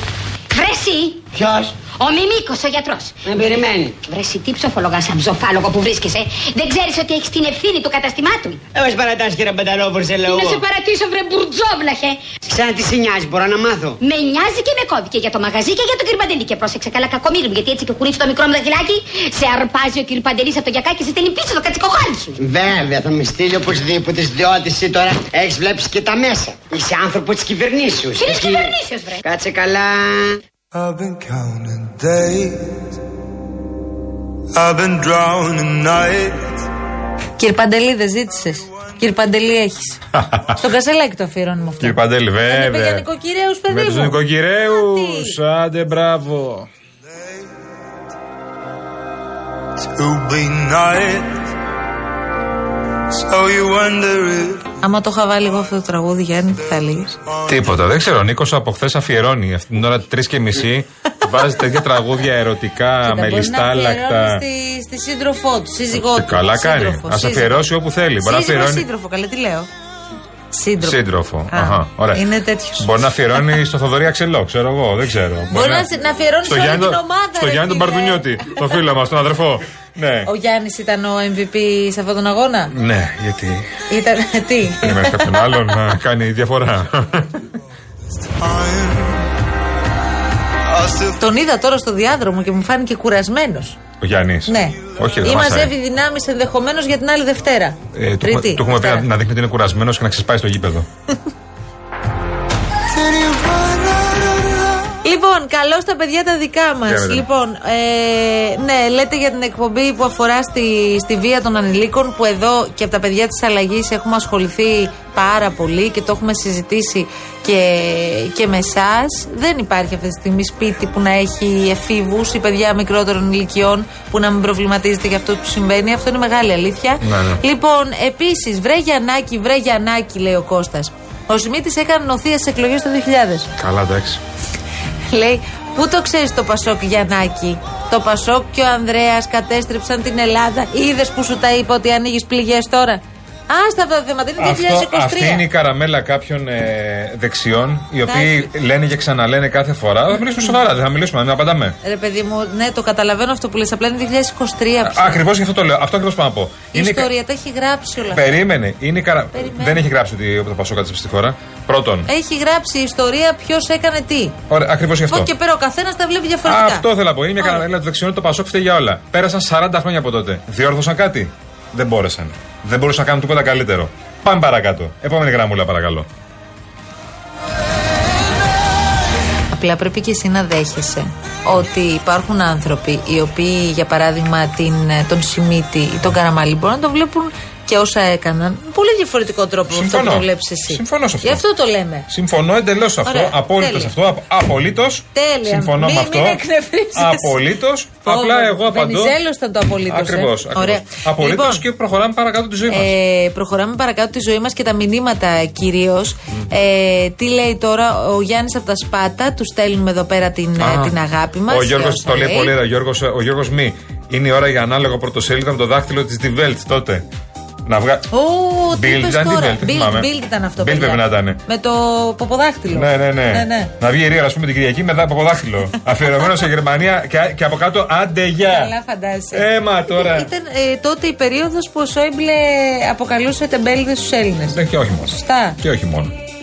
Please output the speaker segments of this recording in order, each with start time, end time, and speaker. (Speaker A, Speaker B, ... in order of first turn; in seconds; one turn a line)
Speaker A: 0.5-1.3
Speaker B: 1.3-1.8
Speaker A: 1.9-3.2
Speaker B: 3.2-4.0
Speaker A: 4.0-8.6
Speaker B: 8.7-10.7
Speaker A: 10.2-12.2
Speaker B: 12.5-14.0
Speaker A: 14.0-22.3
Speaker B: 22.4-30.4
Speaker A: 28.2-29.2
Speaker C: 30.7-32.9
Speaker C: 34.5-36.6
Speaker D: 37.4-40.0
Speaker E: 40.1-40.6
Speaker D: 40.6-44.2
Speaker E: 41.8-43.1
Speaker E: 43.7-46.7
Speaker D: 44.7-45.4
Speaker C: 49.8-51.5
Speaker C: 53.0-54.7
Speaker D: 54.8-57.2
Speaker E: 57.5-64.4
Speaker D: 61.4-61.8
Speaker D: 63.0-67.6
Speaker E: 65.9-68.8
Speaker D: 68.2-69.7
Speaker D: 70.5-72.9
Speaker E: 70.8-72.2
Speaker E: 72.8-75.9
Speaker D: 75.5-78.2
Speaker E: 76.4-80.3
Speaker D: 80.2-82.7
Speaker E: 82.7-83.7
Speaker D: 83.9-85.8
Speaker E: 84.8-87.5
Speaker C: 88.4-89.2
Speaker C: 90.7-91.1
Speaker D: 91.2-93.8
Speaker E: 94.0-95.7
Speaker D: 94.5-99.1
Speaker E: 97.9-100.9
Speaker C: 103.2-104.0
Speaker D: 105.0-133.5
Speaker E: 106.9-107.3
Speaker E: 127.0-127.4
Speaker E: 133.6-134.2
Speaker D: 135.1-145.4
Speaker E: 144.4-151.8
Speaker D: 148.1-148.5
Speaker D: 151.8-155.2
Speaker E: 154.8-157.1
Speaker D: 156.7-158.3
Speaker E: 158.1-162.1
Speaker D: 159.3-159.8
Speaker D: 162.1-164.3
Speaker E: 164.5-165.3
Speaker D: 165.1-166.8
Speaker E: 166.4-176.1
Speaker D: 179.5-192.1
Speaker E: 189.7-191.4
Speaker E: 192.1-196.4
Speaker D: 193.0-193.9
Speaker D: 195.1-197.4
Speaker E: 196.9-202.9
Speaker D: 198.0-201.6
Speaker D: 202.7-212.5
Speaker E: 210.6-217.1
Speaker E: 217.7-218.1
Speaker D: 218.1-223.7
Speaker E: 218.7-221.4
Speaker E: 222.7-228.7
Speaker D: 228.4-234.6
Speaker E: 229.3-230.3
Speaker E: 234.5-236.2
Speaker D: 235.1-235.6